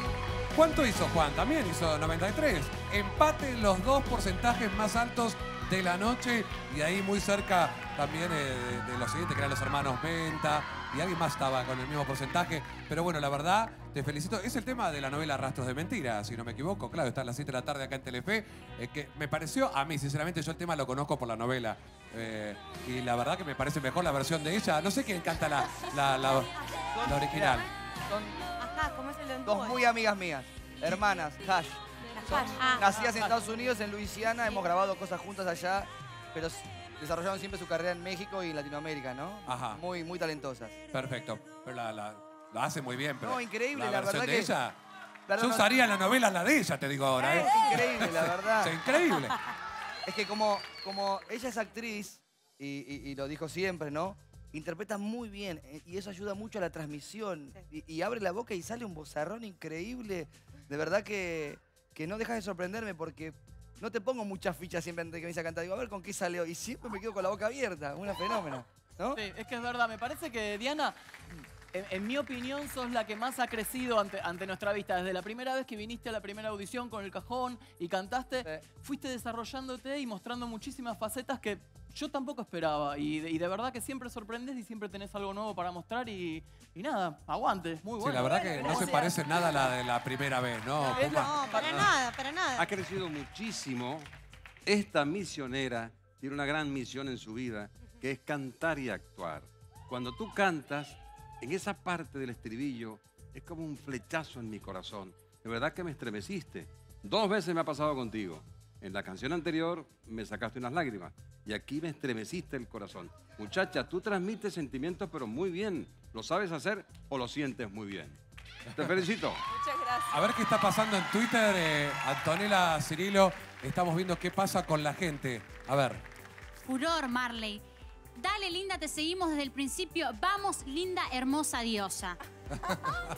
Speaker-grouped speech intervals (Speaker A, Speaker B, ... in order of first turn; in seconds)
Speaker A: 0.5-27.7, 39.5-39.8, 40.9-44.8, 45.3-49.4, 88.0-91.5, 120.1-126.0, 132.6-133.0
Speaker B: 27.0-28.4, 29.4-40.8, 43.2-44.5, 45.3-45.7, 47.2-48.7, 50.0-69.2
Speaker C: 28.5-29.8, 32.1-33.4
Speaker D: 69.1-71.0, 71.7-89.1, 90.9-91.9
Speaker E: 88.3-89.6, 119.5-120.2
Speaker F: 91.5-94.1, 94.7-118.2, 118.7-119.4
Speaker G: 126.6-127.6, 128.1-132.2